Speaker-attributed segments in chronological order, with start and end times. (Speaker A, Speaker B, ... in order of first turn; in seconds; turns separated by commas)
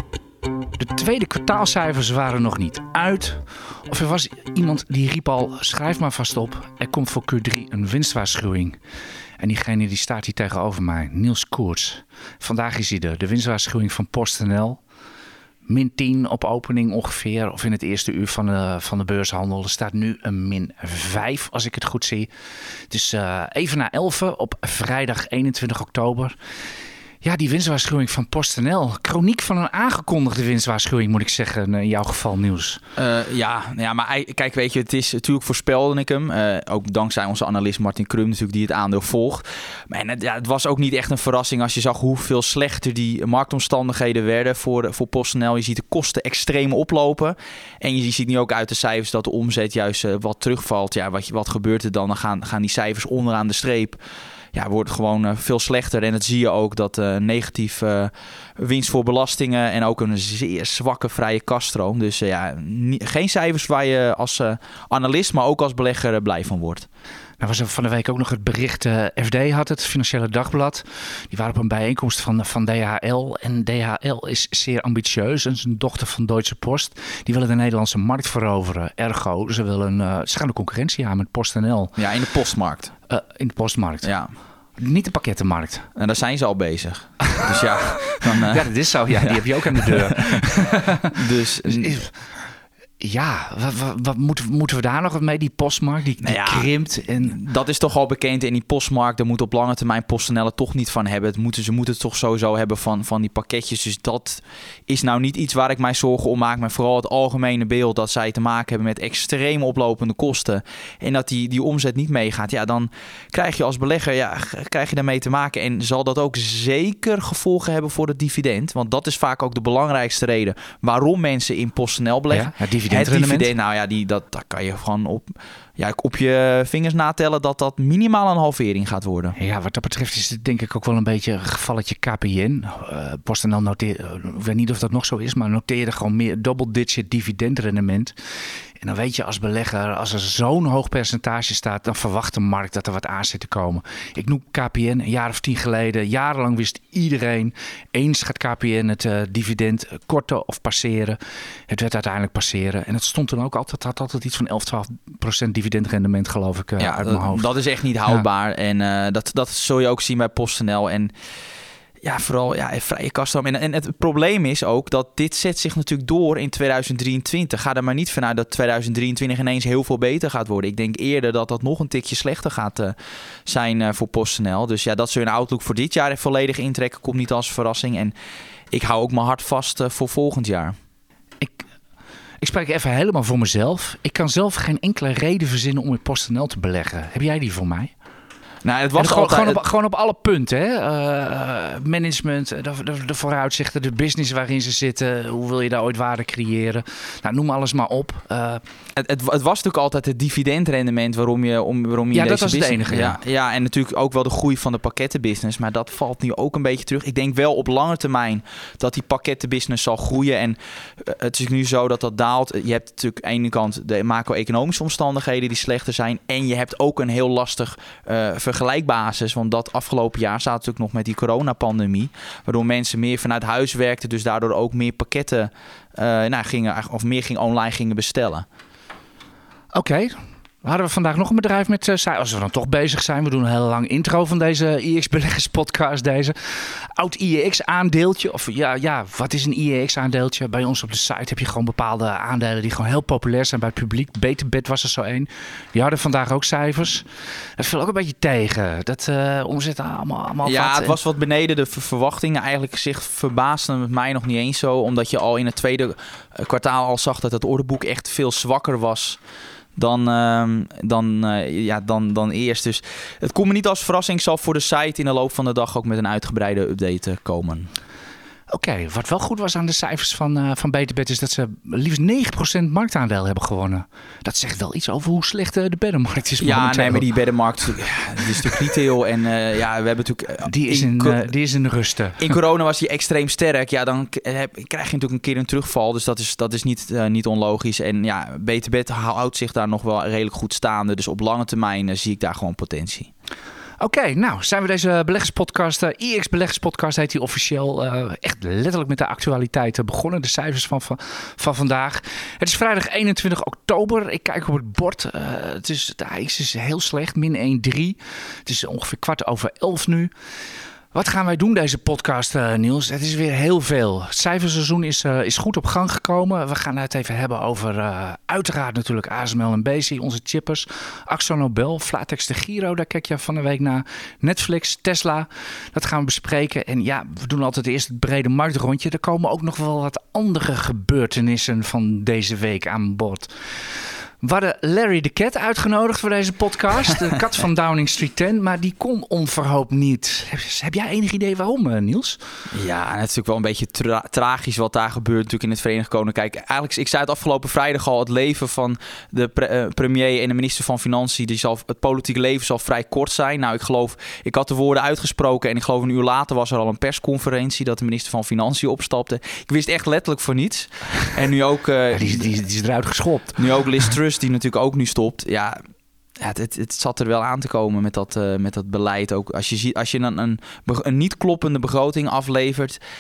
Speaker A: 0.8-8.8, Speaker A: 9.4-14.8, Speaker A: 15.7-22.3, Speaker A: 22.9-26.4, Speaker A: 27.2-32.8, Speaker B: 33.0-54.0, Speaker B: 54.5-66.9, Speaker A: 67.4-82.0, Speaker B: 82.0-82.9, Speaker A: 83.1-84.1, Speaker B: 84.0-84.3, Speaker A: 84.8-85.9, Speaker B: 86.0-90.4, Speaker A: 87.3-92.2, Speaker B: 91.1-92.0, Speaker A: 93.0-97.4, Speaker B: 96.2-96.7, Speaker B: 97.2-129.4, Speaker A: 122.3-123.5, Speaker A: 129.4-138.2, Speaker A: 138.8-151.2, Speaker A: 151.7-157.5, Speaker B: 156.8-161.1, Speaker B: 162.0-172.9, Speaker B: 173.5-178.1, Speaker B: 178.7-180.8, Speaker A: 182.4-187.9, Speaker B: 188.6-189.6, Speaker A: 189.0-198.6, Speaker B: 198.9-228.5, Speaker A: 202.1-203.2, Speaker A: 229.7-247.1, Speaker A: 247.6-251.0, Speaker B: 250.4-259.2, Speaker B: 259.8-267.7, Speaker A: 268.5-277.1, Speaker B: 276.4-281.2, Speaker A: 280.4-282.4, Speaker B: 282.2-293.1, Speaker A: 293.8-310.1, Speaker A: 310.9-333.3, Speaker A: 334.2-342.2, Speaker B: 342.5-362.3, Speaker A: 361.9-363.5, Speaker B: 363.4-365.6, Speaker B: 366.2-372.8